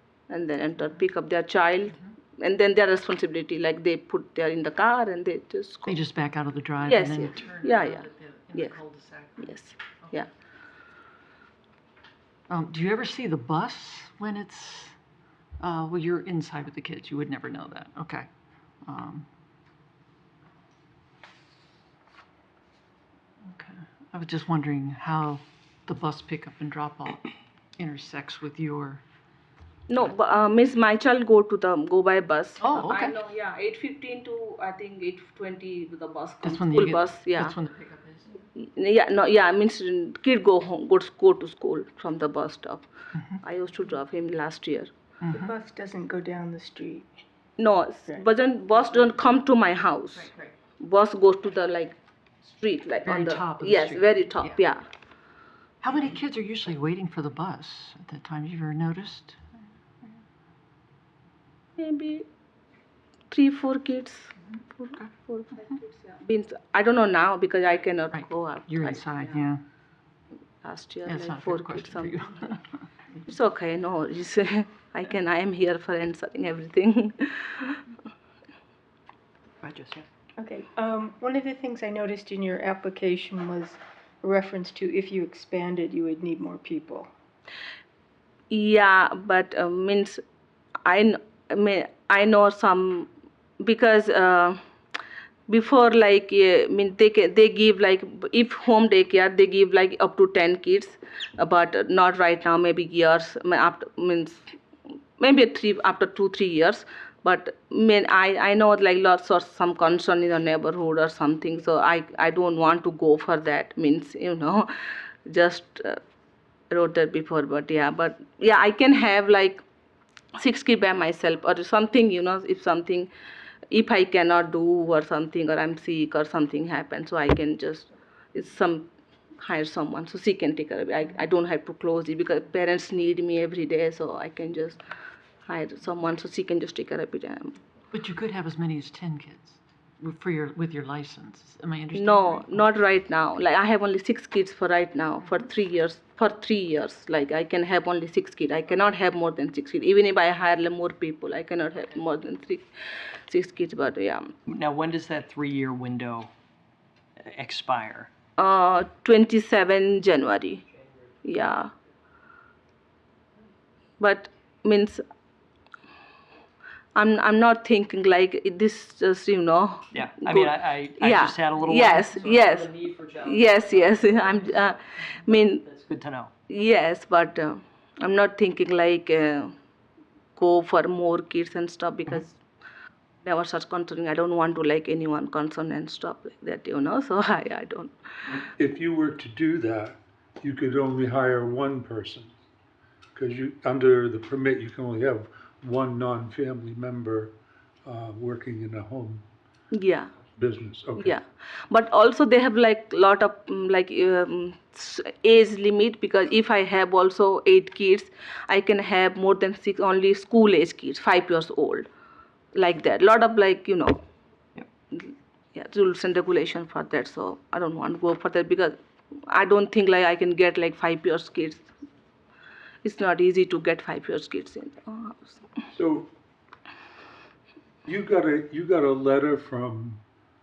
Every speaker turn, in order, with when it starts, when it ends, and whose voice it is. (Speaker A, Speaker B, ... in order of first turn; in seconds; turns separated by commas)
Speaker A: 0.3-6.0, Speaker B: 5.8-10.1, Speaker A: 6.8-8.8, Speaker A: 9.4-10.3, Speaker B: 12.5-14.9, Speaker B: 15.6-18.3, Speaker B: 18.8-19.2, Speaker B: 23.5-29.0, Speaker A: 29.9-37.5, Speaker B: 32.6-33.2, Speaker B: 36.4-38.4, Speaker A: 38.5-42.8, Speaker A: 43.4-44.9, Speaker C: 45.3-47.0, Speaker A: 47.6-54.8, Speaker B: 53.0-54.6, Speaker B: 55.8-59.4, Speaker A: 61.8-62.2, Speaker A: 63.3-69.4, Speaker B: 68.1-69.6, Speaker A: 70.6-72.4, Speaker B: 71.0-72.8, Speaker A: 73.3-77.8, Speaker D: 79.6-80.0, Speaker C: 80.4-87.1, Speaker A: 88.5-90.2, Speaker A: 90.8-93.1, Speaker A: 93.6-94.6, Speaker A: 95.5-104.5, Speaker A: 105.2-114.7, Speaker A: 115.2-116.0, Speaker A: 116.7-119.6, Speaker A: 120.3-123.1, Speaker A: 123.7-134.8, Speaker A: 135.4-137.6, Speaker B: 137.9-142.6, Speaker A: 141.9-154.3, Speaker D: 154.4-156.3, Speaker D: 157.2-158.1, Speaker A: 158.4-160.6, Speaker D: 160.7-161.2, Speaker A: 161.2-161.7, Speaker A: 164.0-165.0, Speaker A: 166.9-175.6, Speaker D: 169.9-176.3, Speaker A: 176.5-179.5, Speaker A: 180.3-182.4, Speaker A: 183.2-188.4, Speaker E: 188.6-192.3, Speaker E: 193.1-199.2, Speaker A: 199.7-200.1, Speaker E: 200.4-201.2, Speaker A: 201.0-211.9, Speaker A: 212.5-214.0, Speaker A: 214.9-221.7, Speaker A: 222.8-225.5, Speaker E: 225.7-226.1, Speaker E: 227.8-230.0